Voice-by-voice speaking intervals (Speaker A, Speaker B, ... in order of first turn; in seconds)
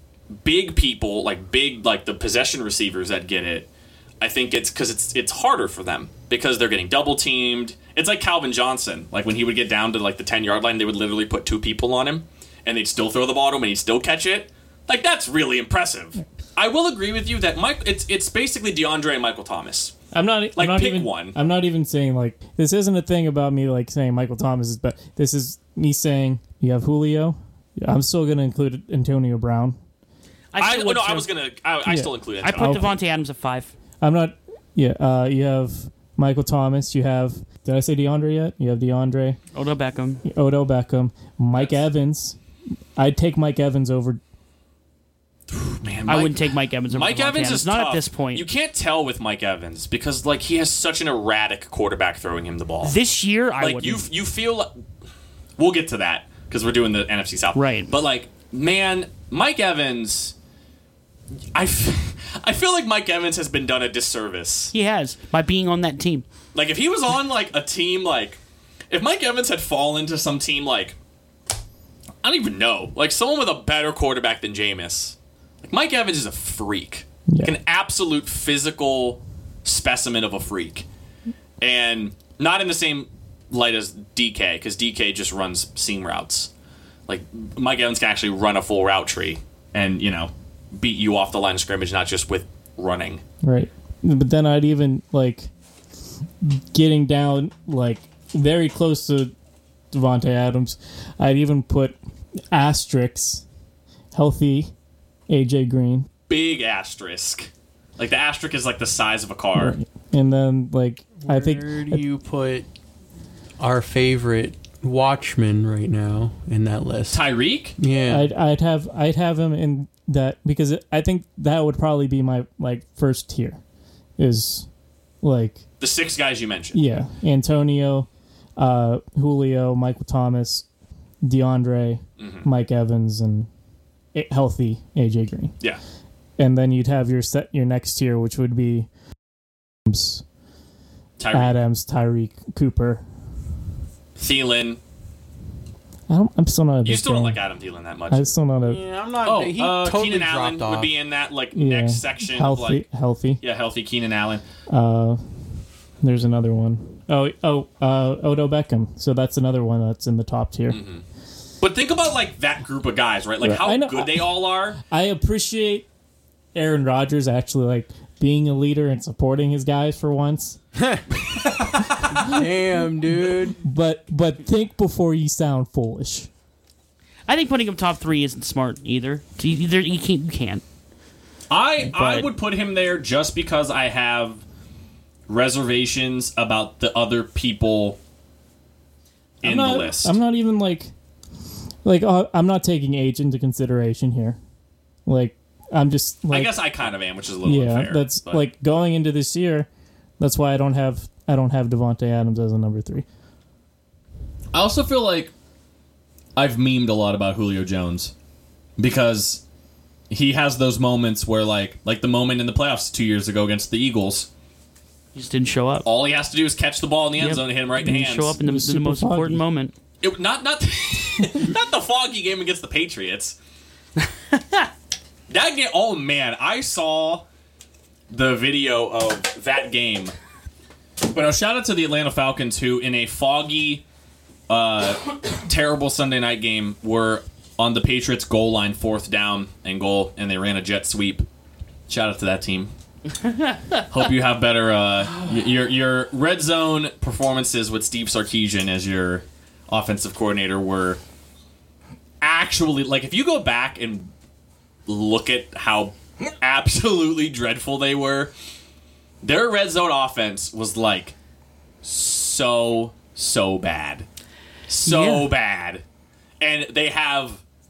Speaker A: 0.4-3.7, 4.2-19.9, 20.6-21.4, 30.6-33.0, 41.5-41.8, 45.5-53.0, 53.6-54.7, 55.6-60.3, 61.5-64.7, 66.5-68.4, 68.9-71.0, 72.2-80.8, 81.6-86.5, 87.1-93.2, 106.3-109.8, 117.1-117.8, 125.8-126.8, 132.2-132.4, 141.2-141.6, 144.2-144.8, 146.8-148.3, 149.2-152.8, 153.4-154.4, 160.7-161.0, 161.6-164.8, 171.6-172.1, 181.5-184.4, 185.3-188.0, 189.4-190.1, 196.3-198.4, 204.5-205.3, 206.3-208.1, 208.8-209.4, 210.1-214.3, 215.8-218.4, 220.0-223.4, 225.3-227.2, 228.1-230.1, 231.0-233.8, 234.5-241.2, 241.9-242.7, 243.9-251.0, 252.2-254.1, 254.9-258.3, 259.2-261.1, 261.8-264.1, 264.7-265.8, 266.4-267.4
Speaker B: 20.1-29.8, 31.8-32.9, 34.0-39.4, 40.2-42.4, 43.0-44.2, 77.3-77.5, 93.4-95.5, 96.4-99.3, 99.9-102.0, 102.5-103.4, 104.1-104.7, 105.3-106.1, 109.5-112.0, 118.1-123.6, 124.2-124.7, 125.2-125.6, 126.7-130.7, 131.2-133.5, 134.1-135.5, 136.4-138.9, 139.8-140.2, 141.3-143.0, 146.1-147.4, 148.1-148.8, 151.5-153.4, 154.7-155.2, 156.0-160.8, 163.4-164.2, 164.8-165.9, 166.5-170.6, 172.1-172.4, 173.6-176.3, 181.8-182.3, 189.4-190.9, 191.8-194.4, 195.1-196.6, 197.4-203.1, 217.9-219.4
Speaker C: 30.5-31.3, 32.4-33.7, 39.5-40.2, 46.1-48.4, 52.8-54.0, 57.5-57.9, 64.7-66.2, 177.3-180.6, 215.1-215.8, 217.2-219.7, 224.3-224.7, 264.8-265.3
Speaker D: 111.2-112.7, 113.6-117.2, 117.8-118.3, 148.6-150.9, 170.8-173.6